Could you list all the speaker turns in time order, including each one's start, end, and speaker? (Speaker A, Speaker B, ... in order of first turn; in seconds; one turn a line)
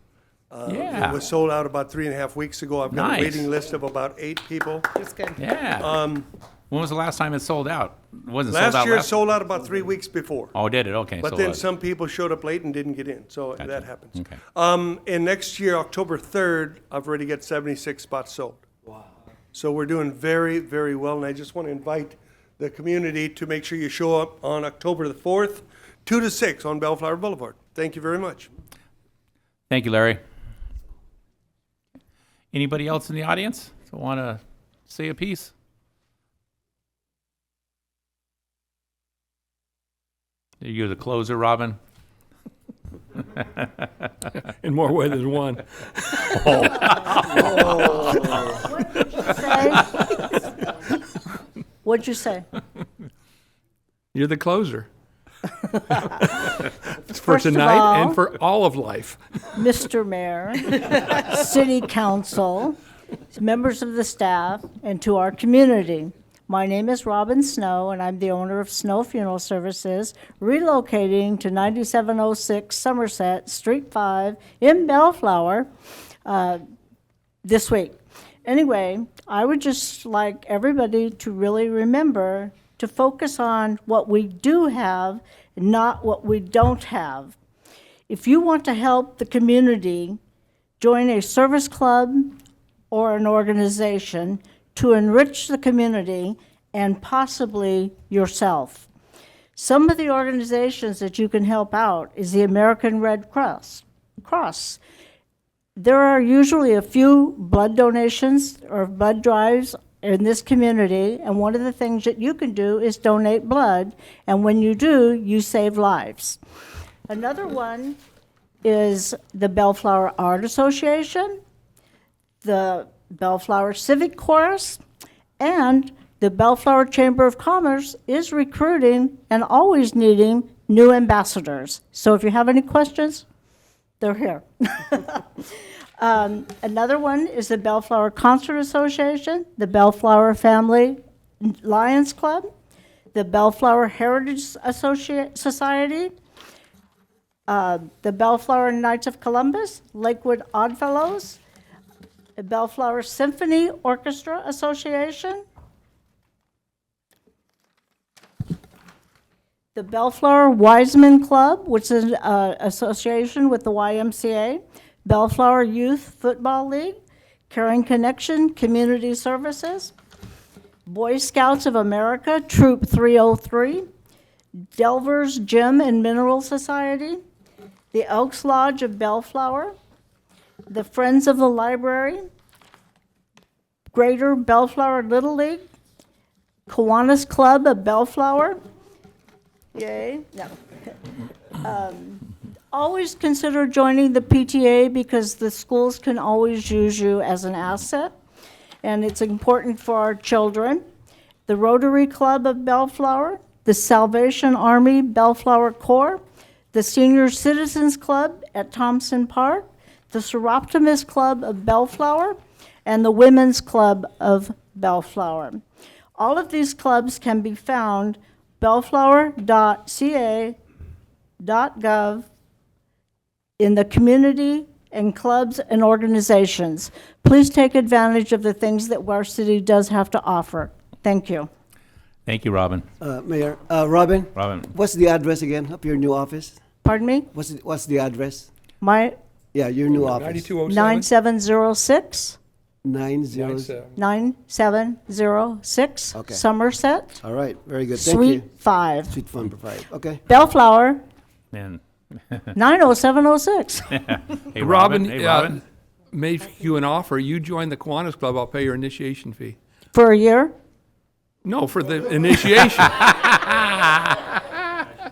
Speaker A: 0.5-5.1
Speaker B: 0.7-1.2
Speaker B: 2.9-3.5
Speaker B: 5.4-6.0
Speaker A: 5.8-6.3
Speaker B: 6.7-9.1
Speaker A: 8.5-10.6
Speaker B: 10.5-11.6
Speaker A: 11.2-18.7
Speaker B: 13.6-14.4
Speaker A: 19.5-28.5
Speaker B: 29.7-30.2
Speaker B: 32.5-35.5
Speaker B: 40.6-41.8
Speaker C: 44.5-48.2
Speaker D: 48.3-50.0
Speaker D: 51.8-52.5
Speaker C: 54.1-54.9
Speaker C: 57.1-59.2
Speaker D: 57.2-58.2
Speaker D: 59.5-62.8
Speaker D: 63.3-75.7
Speaker D: 76.2-76.6
Speaker D: 77.4-87.4
Speaker D: 88.1-90.2
Speaker D: 90.8-92.4
Speaker D: 92.9-98.9
Speaker D: 99.6-104.8
Speaker D: 105.8-116.4
Speaker D: 117.1-118.0
Speaker D: 118.6-121.4
Speaker D: 122.4-124.8
Speaker D: 125.4-133.3
Speaker D: 134.0-135.4
Speaker D: 136.0-142.5
Speaker D: 143.1-146.1
Speaker D: 147.5-151.4
Speaker D: 152.4-155.4
Speaker D: 159.8-166.9
Speaker D: 167.5-169.9
Speaker D: 170.9-173.9
Speaker D: 174.8-177.2
Speaker D: 177.9-179.7
Speaker D: 180.7-182.2
Speaker D: 183.9-185.6
Speaker D: 186.7-188.6
Speaker D: 189.8-190.6
Speaker D: 191.6-198.1
Speaker D: 198.8-200.8
Speaker D: 201.5-206.2
Speaker D: 206.7-215.6
Speaker D: 216.2-220.6
Speaker D: 221.4-222.3
Speaker D: 223.6-231.5
Speaker B: 232.3-232.9
Speaker E: 233.0-236.6
Speaker B: 234.3-234.7
Speaker D: 236.8-237.3
Speaker E: 237.3-238.5
Speaker D: 238.8-239.2
Speaker E: 239.5-240.5
Speaker C: 239.9-241.1
Speaker D: 240.7-242.4
Speaker E: 242.8-243.7
Speaker C: 243.3-243.9
Speaker D: 244.0-247.2
Speaker E: 246.2-246.4
Speaker E: 247.2-248.5
Speaker D: 248.0-249.2
Speaker E: 249.1-250.2
Speaker D: 250.3-251.0
Speaker B: 251.5-252.5
Speaker D: 252.5-254.2
Speaker B: 254.0-255.6
Speaker C: 254.6-259.6
Speaker D: 259.9-260.5
Speaker C: 261.4-263.0
Speaker B: 263.0-264.3